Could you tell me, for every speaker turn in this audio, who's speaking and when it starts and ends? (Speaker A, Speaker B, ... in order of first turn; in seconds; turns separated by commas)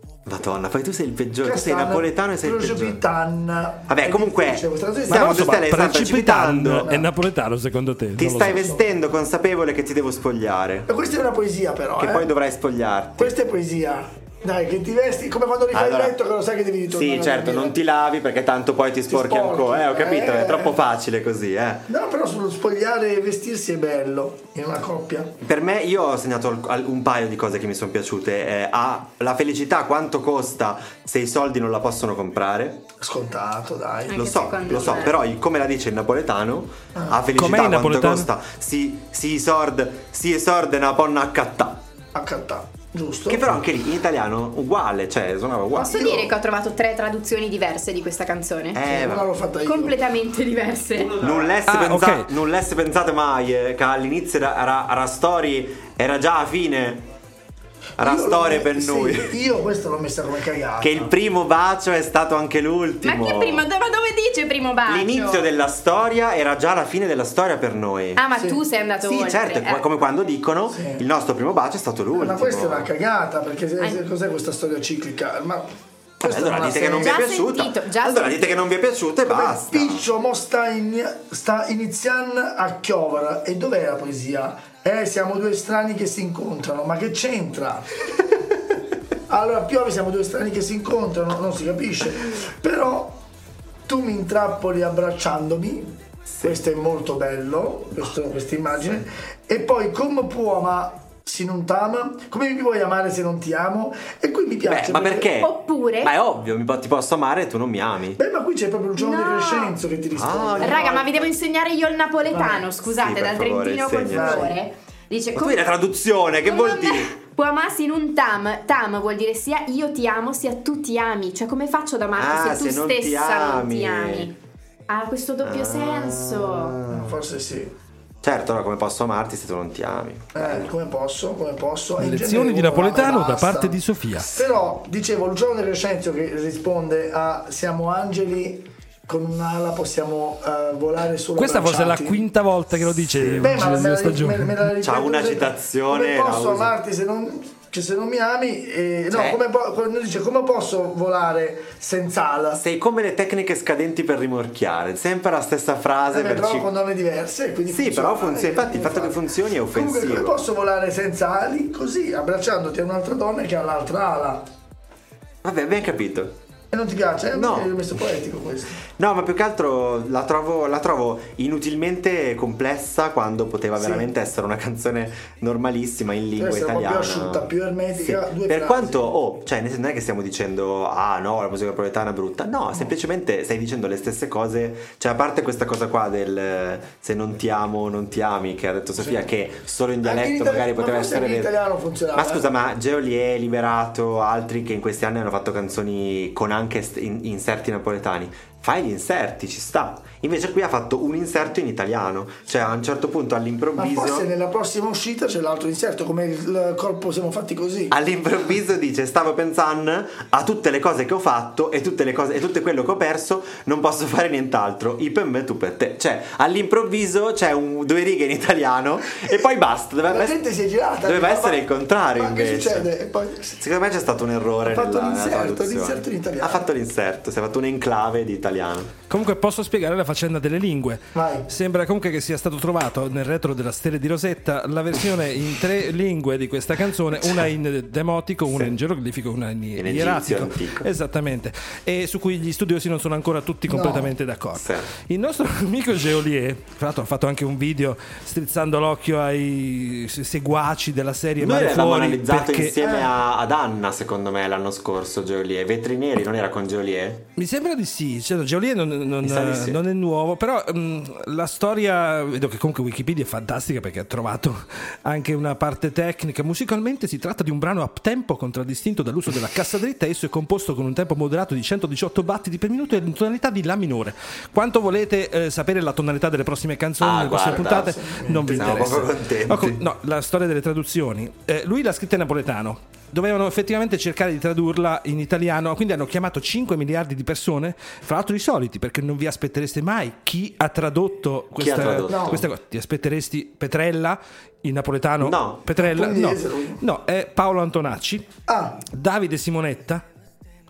Speaker A: 0.3-3.0, Speaker B: 1.4-5.6, Speaker A: 3.9-6.9, Speaker C: 5.1-8.6, Speaker B: 6.8-7.1, Speaker A: 8.2-10.9, Speaker B: 8.4-8.8, Speaker B: 10.9-12.3, Speaker A: 12.0-13.4, Speaker B: 13.2-17.8, Speaker A: 15.7-16.2, Speaker A: 16.9-21.9, Speaker B: 19.1-20.8, Speaker B: 21.9-25.3, Speaker A: 25.4-32.9, Speaker B: 33.0-35.0, Speaker D: 34.1-35.2, Speaker A: 34.1-41.8, Speaker B: 37.0-37.2, Speaker C: 37.3-38.3, Speaker B: 42.1-43.5, Speaker A: 43.3-46.0, Speaker D: 45.7-48.8, Speaker B: 45.9-46.3, Speaker A: 48.7-49.3, Speaker B: 48.8-50.0, Speaker D: 49.6-51.2, Speaker A: 51.1-57.1, Speaker C: 51.7-52.3, Speaker A: 58.0-59.4, Speaker B: 58.0-61.1, Speaker A: 60.8-63.7, Speaker D: 63.0-65.4, Speaker A: 64.9-68.2, Speaker D: 68.2-69.8, Speaker A: 69.0-72.9, Speaker B: 70.7-71.0, Speaker B: 72.1-75.7, Speaker B: 76.2-77.2, Speaker A: 76.2-80.1, Speaker D: 77.0-78.7, Speaker B: 79.2-88.0, Speaker B: 89.3-93.2, Speaker B: 93.9-105.3, Speaker A: 96.3-96.6, Speaker A: 104.7-108.2, Speaker D: 105.4-106.1, Speaker B: 108.2-111.3, Speaker D: 109.0-109.7, Speaker A: 110.1-111.1, Speaker D: 110.6-115.7, Speaker B: 112.3-112.7, Speaker A: 112.9-114.5, Speaker B: 114.1-114.5, Speaker A: 115.3-117.1, Speaker D: 116.5-124.3, Speaker A: 122.1-124.3, Speaker D: 124.9-126.8, Speaker A: 125.4-127.2, Speaker B: 126.9-127.7, Speaker A: 128.2-130.7, Speaker B: 130.4-142.3, Speaker C: 132.0-134.4, Speaker C: 141.4-144.6, Speaker A: 143.1-143.6, Speaker B: 143.4-152.6, Speaker A: 144.8-146.7, Speaker A: 149.1-149.4, Speaker A: 152.6-156.7, Speaker B: 156.1-159.2, Speaker A: 157.7-160.4, Speaker B: 159.7-164.4, Speaker A: 165.4-166.4, Speaker B: 166.7-168.8, Speaker A: 167.3-167.9, Speaker A: 168.9-191.6, Speaker B: 173.8-174.1, Speaker B: 176.4-179.1, Speaker B: 190.0-192.4, Speaker A: 192.1-204.3, Speaker B: 203.8-207.9, Speaker A: 207.9-220.4, Speaker B: 220.1-223.6, Speaker A: 221.0-222.9, Speaker A: 223.6-228.9, Speaker B: 224.6-226.7, Speaker C: 229.1-252.8, Speaker B: 231.2-231.5, Speaker A: 238.5-238.7, Speaker A: 239.8-240.9, Speaker B: 243.7-244.1, Speaker A: 244.6-244.9, Speaker A: 251.4-257.3, Speaker B: 252.8-253.1, Speaker C: 257.4-298.3, Speaker A: 259.2-259.8, Speaker A: 277.0-277.9, Speaker B: 277.4-279.0, Speaker A: 278.5-279.8, Speaker A: 291.6-292.4, Speaker B: 292.1-292.4, Speaker A: 295.2-295.6, Speaker B: 295.8-296.8, Speaker B: 298.5-298.8, Speaker C: 298.9-300.0